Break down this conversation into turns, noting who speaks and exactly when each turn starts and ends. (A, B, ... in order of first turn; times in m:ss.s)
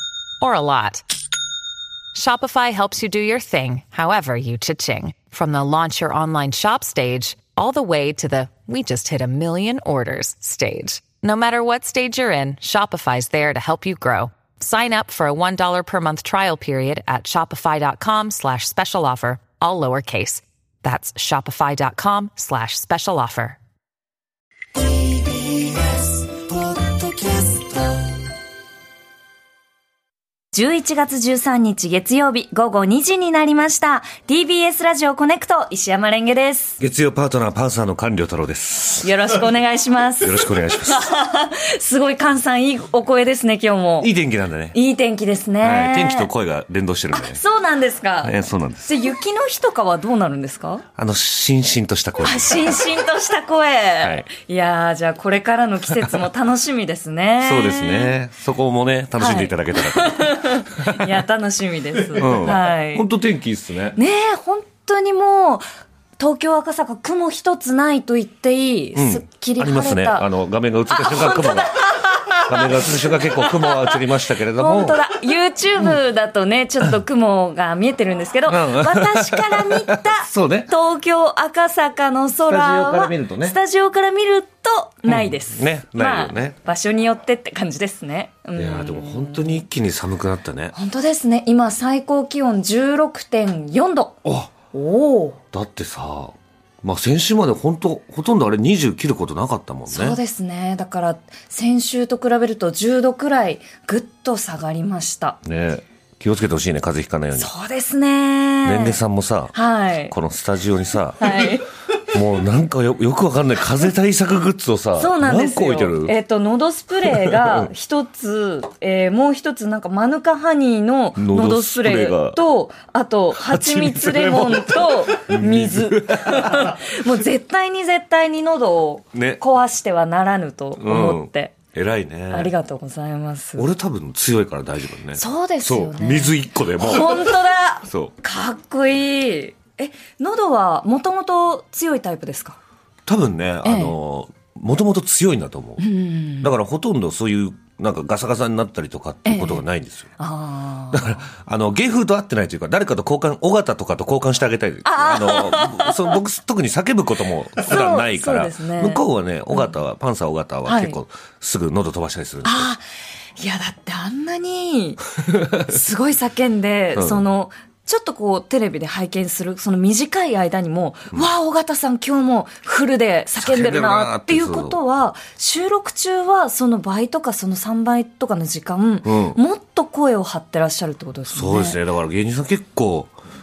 0:00.4-0:01.0 A
0:02.1-0:23.6 A
0:25.0-0:28.0 B
0:30.5-0:36.8 C
0:36.8-0:39.4 D
0:39.0-0:44.1 C
0:40.2-0:41.1 D
0:44.0-0:44.8 D
0:44.7-0:46.3 C
0:45.6-0:47.4 D
0:47.1-0:50.8 C
0:48.2-0:49.0 D
0:51.0-0:52.9 D
0:52.2-0:58.1 C
0:54.0-0:54.2 D
0:57.4-1:01.2 D
0:59.2-1:03.0 C
1:02.1-1:04.0 D
1:03.9-1:05.6 C
1:06.2-1:10.3 C
1:08.9-1:15.1 D
1:10.9-1:29.6 C
1:18.4-1:20.7 D
1:22.4-1:23.6 D
1:25.0-1:26.6 D
1:28.5-1:30.7 D
1:30.7-1:34.2 C
1:34.2-1:34.5 D
1:34.7-1:35.4 C
1:35.5-1:40.2 D
1:39.9-1:45.4 C
1:45.4-1:47.5 D
1:47.3-1:49.0 C
1:48.6-1:56.2 D
1:49.5-1:50.1 C
1:51.2-1:51.7 C
1:55.0-2:11.6 C
1:57.0-1:57.7 D
2:01.1-2:02.4 D
2:03.3-2:06.8 D
2:09.1-2:09.4 D
2:10.8-2:12.5 D
2:12.3-2:13.7 C
2:13.6-2:18.1 D
2:15.1-2:22.6 C
2:23.0-2:25.8 D
2:23.6-2:23.9 C
2:25.8-2:26.5 C
2:26.4-2:30.1 D
2:29.2-2:29.6 C
2:30.2-2:31.2 C
2:30.9-2:42.7 D
2:34.8-2:36.2 C
2:37.6-2:39.7 C
2:40.6-2:41.0 C
2:42.4-2:42.8 C
2:43.4-3:01.8 C
2:46.9-2:47.2 D
2:53.4-2:54.8 D
2:59.0-2:59.4 D
3:01.3-3:03.1 D